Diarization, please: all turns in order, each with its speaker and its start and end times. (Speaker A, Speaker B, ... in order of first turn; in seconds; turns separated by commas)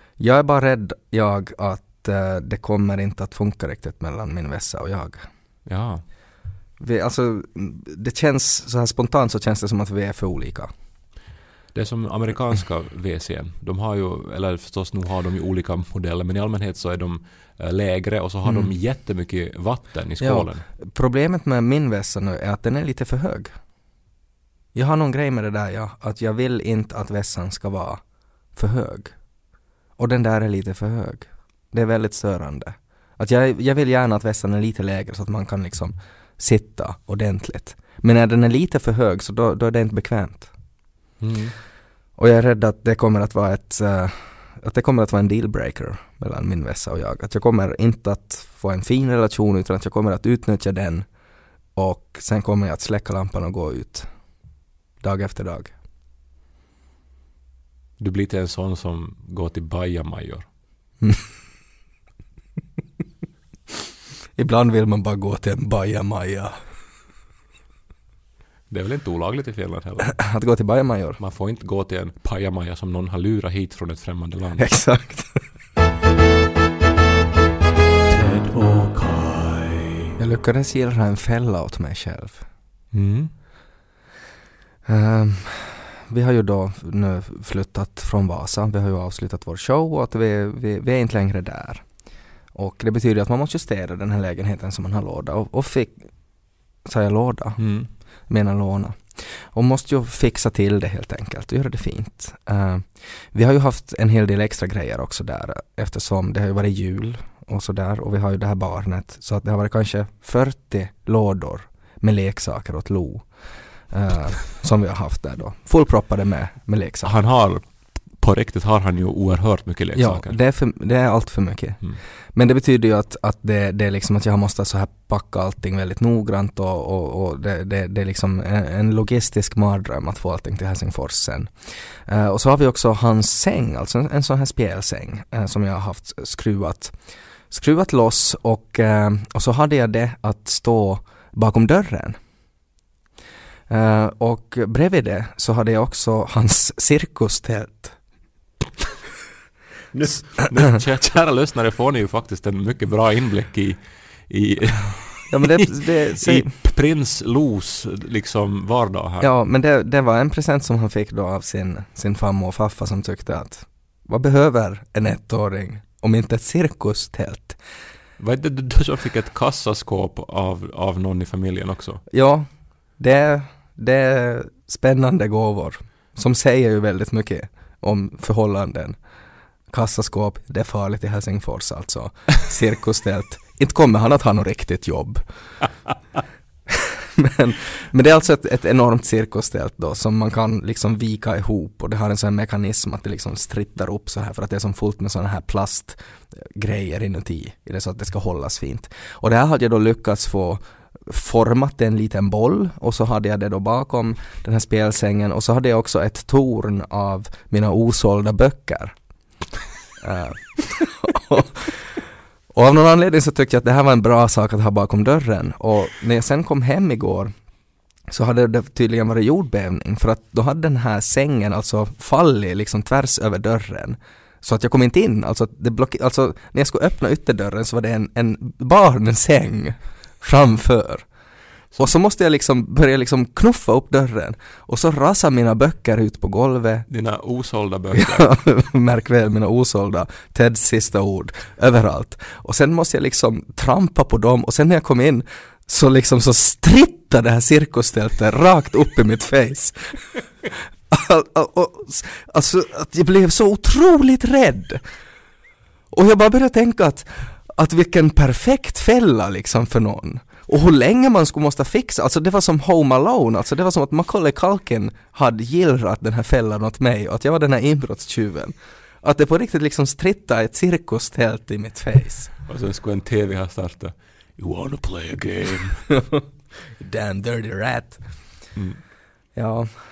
Speaker A: 0.2-5.2, Speaker B: 5.7-6.0, Speaker A: 6.8-10.7, Speaker B: 11.7-20.6, Speaker A: 18.4-18.7, Speaker A: 20.2-23.5, Speaker A: 24.7-28.0, Speaker A: 28.5-29.1, Speaker A: 30.0-40.5, Speaker B: 41.2-41.5, Speaker A: 42.2-51.0, Speaker A: 51.8-54.1, Speaker A: 55.0-55.7, Speaker B: 58.0-60.5, Speaker A: 64.3-66.6, Speaker B: 68.7-70.2, Speaker A: 70.0-71.2, Speaker B: 71.2-74.7, Speaker A: 74.6-75.4, Speaker B: 78.1-80.1, Speaker A: 80.2-82.4, Speaker B: 82.9-83.3, Speaker A: 84.8-91.8, Speaker A: 92.5-96.1, Speaker A: 96.8-97.6, Speaker B: 97.6-97.9, Speaker A: 98.3-113.3, Speaker A: 113.9-117.2, Speaker B: 117.0-117.7, Speaker B: 118.2-120.4, Speaker A: 120.0-121.8, Speaker A: 122.3-131.5, Speaker A: 132.1-136.9, Speaker A: 137.5-142.2, Speaker A: 143.7-147.9, Speaker B: 149.9-159.3, Speaker A: 155.3-156.5, Speaker A: 159.2-167.6, Speaker B: 168.2-172.0, Speaker A: 172.1-172.5, Speaker A: 173.0-178.9, Speaker A: 179.7-185.2, Speaker A: 186.7-208.9, Speaker A: 210.0-212.0, Speaker A: 212.5-217.3, Speaker A: 218.1-231.0, Speaker A: 231.8-236.9, Speaker B: 236.9-238.3, Speaker A: 237.9-254.8, Speaker A: 255.9-272.3, Speaker B: 272.5-275.9, Speaker A: 275.9-278.0, Speaker B: 278.5-278.8, Speaker A: 279.4-279.7